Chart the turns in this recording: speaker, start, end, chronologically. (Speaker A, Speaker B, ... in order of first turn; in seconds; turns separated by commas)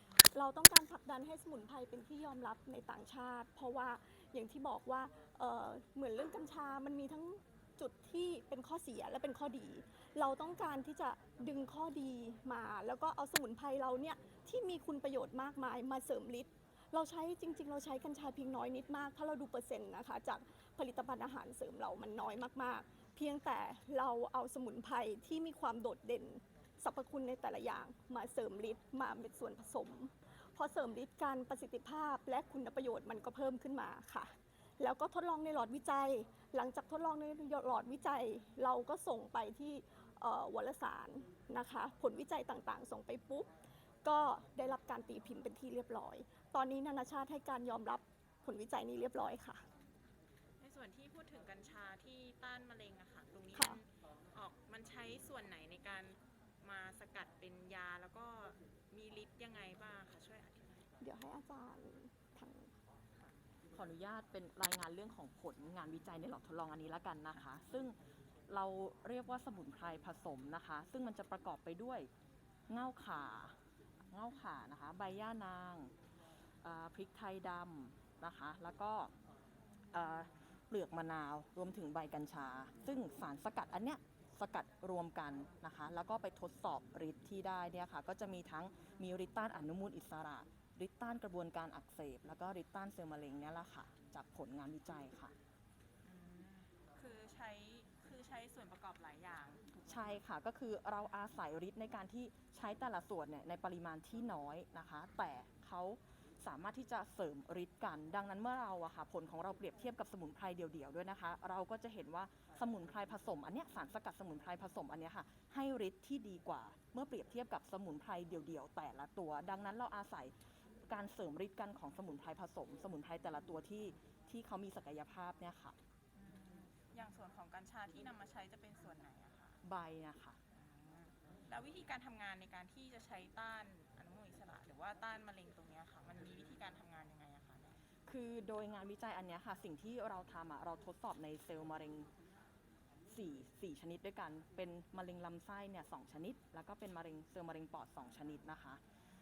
Speaker A: 0.3-43.5, Speaker A: 44.0-49.6, Speaker B: 50.6-60.8, Speaker A: 53.5-53.8, Speaker A: 61.0-62.7, Speaker C: 63.7-68.0, Speaker C: 68.5-72.1, Speaker C: 72.7-73.6, Speaker C: 74.1-75.9, Speaker C: 76.6-79.1, Speaker C: 79.9-95.3, Speaker B: 96.0-99.7, Speaker C: 99.9-120.3, Speaker C: 120.9-125.8, Speaker B: 126.1-129.6, Speaker C: 129.6-130.4, Speaker B: 130.5-137.8, Speaker C: 138.1-142.1, Speaker C: 143.1-148.8